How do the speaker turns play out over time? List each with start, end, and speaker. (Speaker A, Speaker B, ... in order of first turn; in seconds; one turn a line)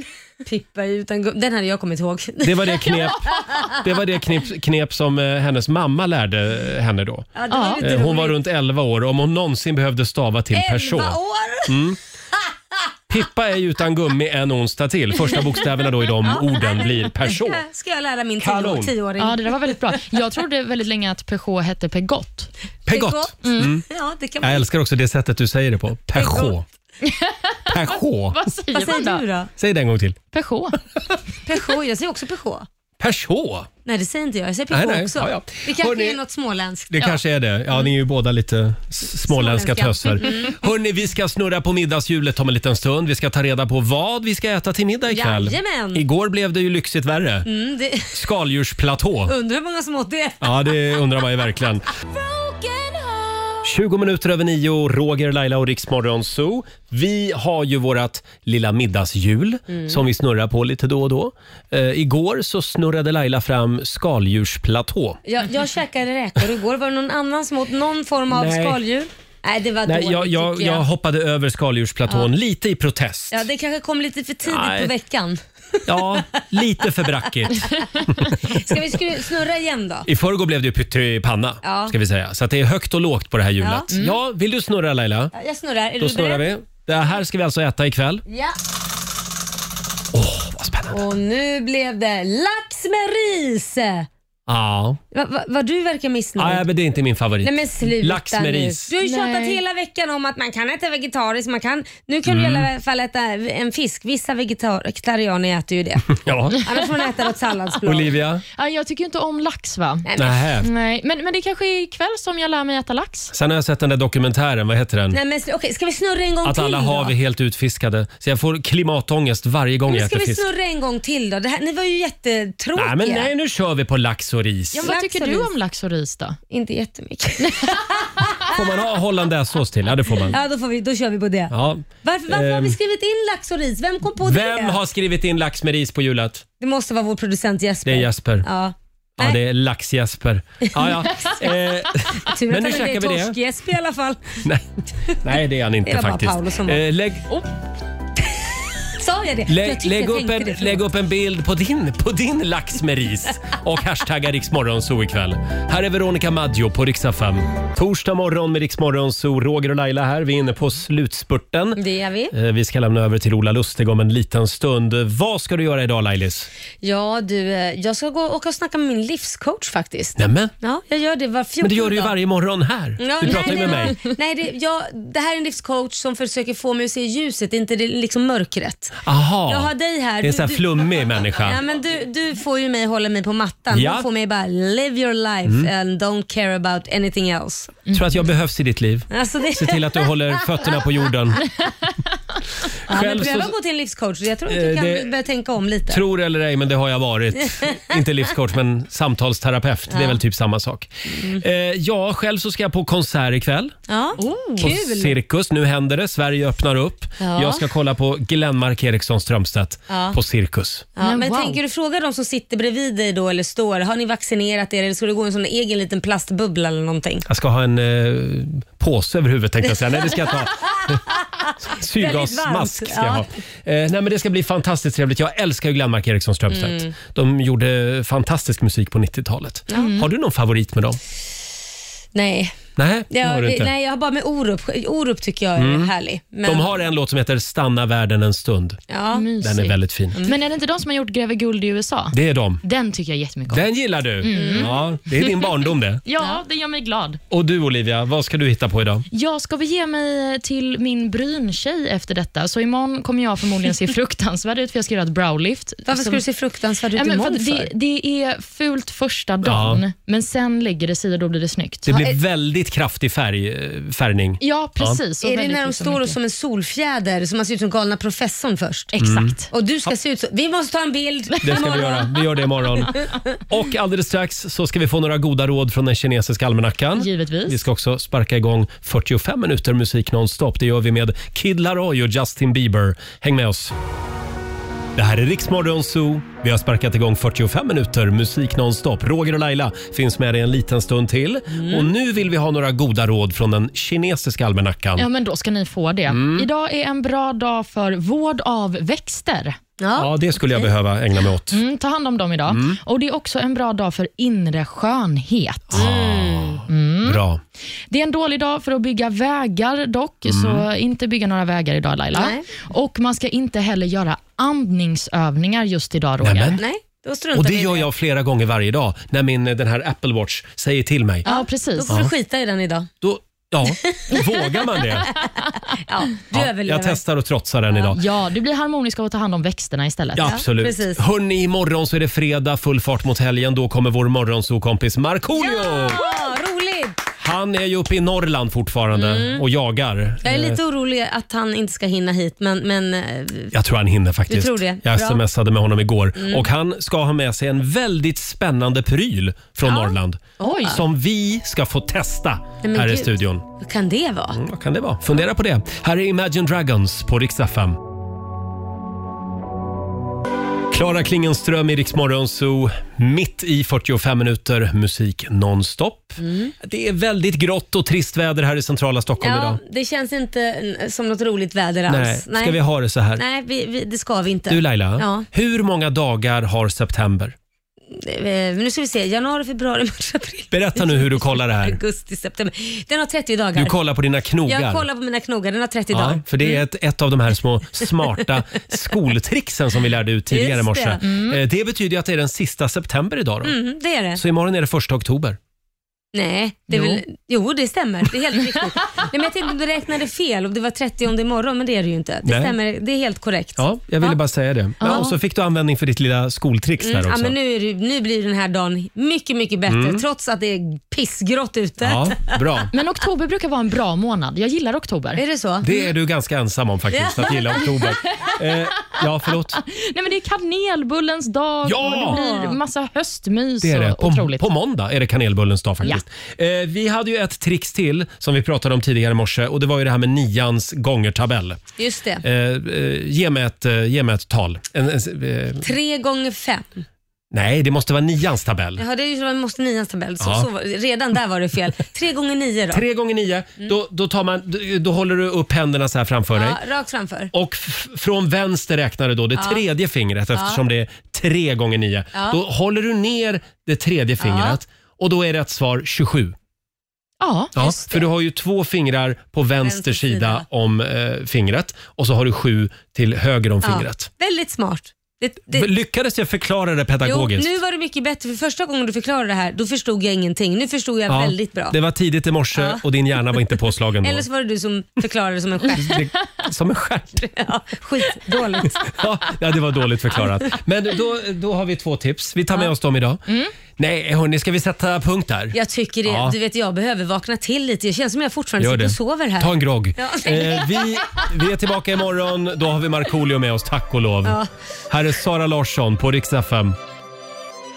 Speaker A: 0.4-3.7
Speaker B: 2.4-12.0
Speaker A: 7.3-8.4
Speaker C: 7.5-8.0
Speaker A: 10.5-11.8
Speaker B: 13.1-17.6
Speaker A: 16.2-19.8
Speaker B: 18.4-18.9
Speaker C: 19.2-22.5
Speaker B: 22.9-23.8
Speaker A: 22.9-24.6
Speaker C: 23.4-23.7
Speaker B: 24.4-26.6
Speaker A: 26.2-26.5
Speaker C: 27.0-29.2
Speaker B: 27.7-28.4
Speaker A: 28.7-29.5
Speaker B: 29.6-30.2
Speaker C: 30.3-30.8
Speaker A: 31.4-32.7
Speaker B: 33.0-33.7
Speaker A: 33.8-37.2
Speaker B: 34.7-36.2
Speaker B: 36.9-47.5
Speaker A: 39.3-40.6
Speaker A: 45.1-46.0
Speaker A: 47.4-48.2
Speaker B: 48.1-49.3
Speaker A: 49.3-50.5
Speaker B: 50.4-51.9
Speaker A: 52.2-53.3
Speaker B: 53.6-65.2
Speaker A: 59.7-60.0
Speaker A: 65.2-70.8
Speaker B: 68.3-68.8
Speaker B: 69.8-73.5
Speaker A: 73.3-75.4
Speaker B: 74.5-74.9
Speaker B: 75.8-78.7
Speaker A: 75.9-76.4
Speaker A: 77.0-80.1
Speaker B: 80.0-85.3
Speaker A: 81.6-82.0
Speaker A: 83.6-83.9
Speaker C: 83.9-84.2
Speaker A: 85.3-86.5
Speaker B: 86.0-88.2
Speaker A: 88.3-88.5
Speaker B: 90.1-91.0
Speaker A: 90.9-94.1
Speaker B: 94.5-95.0
Speaker A: 95.1-96.6
Speaker B: 96.4-98.9
Speaker A: 97.4-108.2
Speaker C: 99.0-99.6
Speaker B: 102.2-102.7
Speaker B: 106.1-106.6
Speaker B: 107.8-108.4
Speaker C: 108.5-110.0
Speaker A: 110.0-110.4
Speaker B: 110.2-110.7
Speaker C: 110.6-113.3
Speaker B: 113.3-115.2
Speaker A: 115.1-117.1
Speaker B: 116.4-120.5
Speaker A: 119.9-123.3
Speaker B: 122.7-124.9
Speaker C: 124.7-126.4
Speaker A: 124.8-125.5
Speaker A: 126.5-128.5
Speaker B: 128.5-130.4
Speaker A: 130.3-134.8
Speaker B: 131.5-132.8
Speaker B: 134.2-136.4
Speaker A: 136.6-139.4
Speaker B: 137.8-138.5
Speaker B: 139.2-143.4
Speaker A: 140.7-141.5
Speaker A: 142.2-144.4
Speaker B: 144.4-147.2
Speaker A: 145.8-146.8
Speaker A: 148.9-150.8
Speaker B: 149.5-166.5
Speaker A: 161.8-162.3
Speaker A: 166.8-172.1
Speaker B: 170.2-170.5
Speaker B: 171.6-174.0
Speaker A: 173.0-187.8
Speaker C: 173.2-173.7
Speaker B: 179.0-181.6
Speaker B: 183.7-184.1
Speaker B: 185.4-185.7
Speaker B: 187.9-191.5
Speaker A: 189.1-190.7
Speaker B: 192.9-193.5
Speaker A: 192.9-196.0
Speaker B: 194.5-195.1
Speaker B: 195.9-203.8
Speaker A: 199.9-200.2
Speaker A: 201.2-201.4
Speaker A: 203.9-205.2
Speaker C: 204.2-204.7
Speaker B: 204.6-210.9
Speaker A: 207.2-207.6
Speaker A: 209.9-210.2
Speaker A: 210.9-217.2
Speaker C: 211.0-211.6
Speaker B: 217.3-221.0
Speaker A: 220.0-223.3
Speaker B: 221.6-231.0
Speaker A: 226.5-226.9
Speaker C: 229.7-230.1
Speaker A: 232.1-232.6
Speaker B: 232.8-233.7
Speaker A: 233.1-236.8
Speaker B: 235.6-235.9
Speaker B: 236.4-238.8
Speaker A: 238.9-239.3
Speaker C: 239.1-243.7
Speaker B: 239.4-240.2
Speaker B: 242.1-242.6
Speaker B: 243.5-246.0
Speaker C: 244.2-245.5
Speaker A: 244.3-244.8
Speaker C: 246.0-247.2
Speaker B: 247.3-249.1
Speaker C: 249.1-256.2
Speaker A: 255.9-257.7
Speaker C: 256.9-262.1
Speaker B: 259.4-259.8
Speaker B: 261.9-265.0
Speaker C: 264.4-266.2
Speaker A: 265.2-268.9
Speaker C: 268.9-269.5
Speaker B: 269.0-269.4
Speaker A: 269.5-272.1
Speaker C: 271.4-272.0
Speaker B: 271.4-283.7
Speaker C: 277.0-277.6
Speaker B: 284.9-295.1
Speaker A: 291.5-291.9
Speaker C: 295.0-299.6
Speaker B: 296.1-296.5
Speaker A: 299.8-300.7
Speaker B: 299.9-301.6
Speaker C: 301.5-305.8
Speaker B: 302.5-302.8
Speaker B: 305.7-307.4
Speaker A: 305.7-306.6
Speaker C: 306.7-307.2
Speaker C: 307.9-316.6
Speaker B: 310.2-310.6
Speaker A: 312.1-312.4
Speaker B: 316.2-316.6
Speaker A: 316.6-317.9
Speaker B: 317.3-321.2
Speaker A: 321.2-322.9
Speaker C: 321.2-321.9
Speaker B: 321.9-322.1
Speaker B: 323.0-325.1
Speaker A: 323.6-325.2
Speaker A: 325.7-327.0
Speaker B: 326.3-328.0
Speaker C: 327.9-330.4
Speaker B: 330.1-336.2
Speaker A: 330.2-331.0
Speaker A: 335.4-337.0
Speaker B: 337.2-340.6
Speaker A: 338.9-339.4
Speaker A: 340.2-343.5
Speaker B: 343.5-353.4
Speaker A: 344.3-345.2
Speaker A: 346.2-346.4
Speaker C: 350.4-350.8
Speaker A: 350.4-350.8
Speaker A: 352.6-354.4
Speaker B: 354.3-357.8
Speaker B: 360.7-369.6
Speaker A: 366.2-366.5
Speaker A: 369.2-372.6
Speaker B: 371.9-373.2
Speaker A: 373.1-375.2
Speaker B: 374.5-377.4
Speaker A: 377.9-383.7
Speaker B: 380.5-381.8
Speaker B: 383.6-384.9
Speaker A: 384.4-386.6
Speaker B: 385.9-393.5
Speaker A: 390.3-391.0
Speaker C: 391.0-391.4
Speaker A: 393.4-394.2
Speaker B: 394.1-395.4
Speaker A: 396.1-404.2
Speaker B: 402.2-402.5
Speaker B: 403.6-407.3
Speaker C: 404.8-405.2
Speaker A: 406.8-412.3
Speaker B: 409.7-410.0
Speaker B: 411.8-412.7
Speaker C: 412.7-415.2
Speaker A: 415.2-415.7
Speaker B: 415.6-419.6
Speaker A: 416.9-417.9
Speaker C: 419.6-424.5
Speaker B: 421.6-422.2
Speaker A: 421.9-422.6
Speaker B: 423.6-431.6
Speaker A: 431.8-432.2
Speaker B: 432.2-435.7
Speaker A: 435.6-436.8
Speaker B: 437.3-438.8
Speaker A: 438.8-442.8
Speaker B: 440.2-440.5
Speaker B: 442.7-446.6
Speaker A: 446.3-447.3
Speaker B: 447.3-456.3
Speaker A: 449.4-449.6
Speaker A: 450.3-450.6
Speaker A: 452.1-452.4
Speaker A: 454.2-454.6
Speaker C: 457.2-457.5
Speaker B: 457.6-464.1
Speaker A: 457.6-458.1
Speaker A: 459.6-460.4
Speaker A: 463.6-465.7
Speaker B: 465.5-467.6
Speaker A: 467.0-471.8
Speaker B: 471.1-474.2
Speaker A: 472.6-472.8
Speaker A: 474.0-476.1
Speaker B: 475.7-477.2
Speaker A: 477.2-479.0
Speaker B: 478.6-486.4
Speaker A: 485.5-490.9
Speaker B: 488.6-496.8
Speaker A: 494.2-494.5